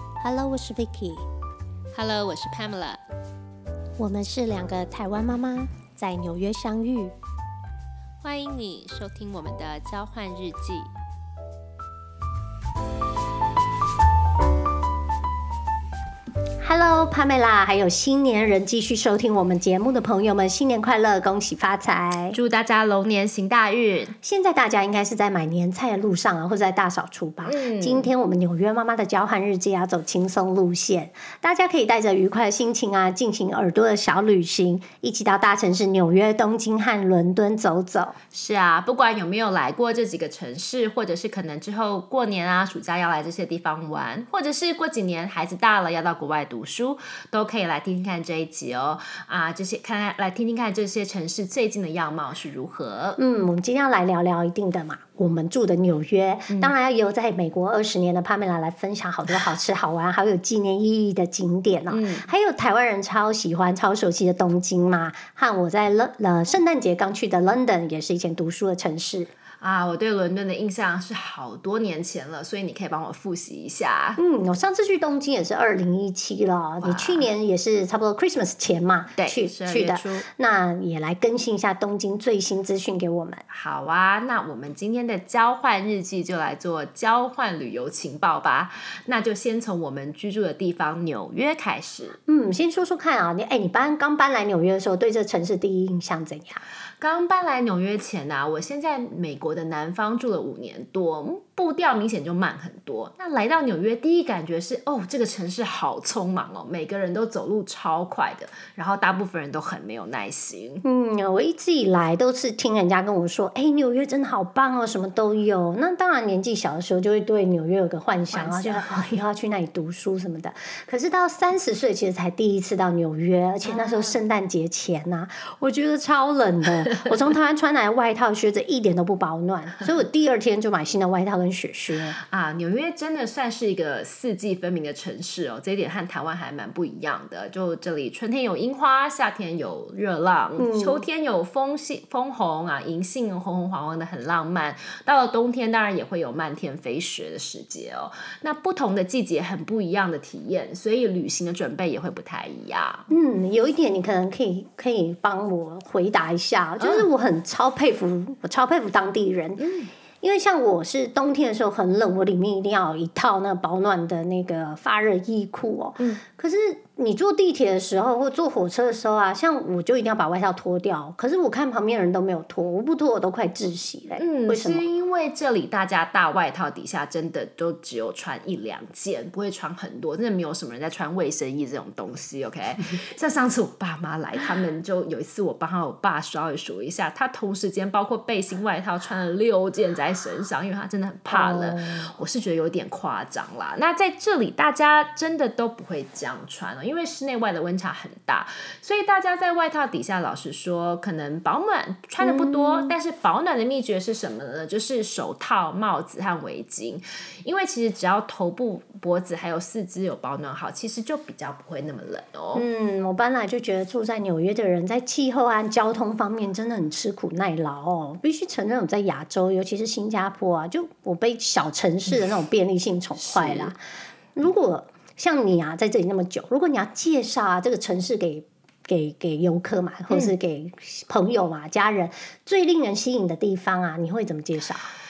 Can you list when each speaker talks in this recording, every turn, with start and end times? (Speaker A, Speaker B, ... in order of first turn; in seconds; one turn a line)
Speaker A: 0.2-1.2
Speaker B: 1.9-3.0
Speaker A: 4.0-7.1
Speaker B: 8.2-10.9
Speaker A: 16.6-22.4
Speaker B: 22.3-24.1
Speaker A: 24.2-38.2
Speaker B: 27.4-28.1
Speaker B: 38.3-53.2
Speaker A: 53.2-69.3
Speaker B: 56.5-56.7
Speaker B: 61.9-62.3
Speaker B: 69.6-74.2
Speaker A: 74.2-83.4
Speaker B: 76.8-77.2
Speaker B: 79.2-80.2
Speaker B: 83.5-92.2
Speaker A: 92.3-96.6
Speaker B: 97.0-110.8
Speaker A: 110.8-132.2
Speaker B: 118.3-119.0
Speaker B: 123.6-124.1
Speaker B: 132.2-153.0
Speaker A: 140.6-141.0
Speaker A: 153.1-159.7
Speaker B: 156.8-157.1
Speaker B: 159.6-159.9
Speaker A: 160.2-174.8
Speaker B: 174.2-212.6
Speaker A: 191.3-192.1
Speaker A: 202.2-202.9
Speaker A: 212.5-223.8
Speaker B: 223.2-223.7
Speaker A: 224.3-234.9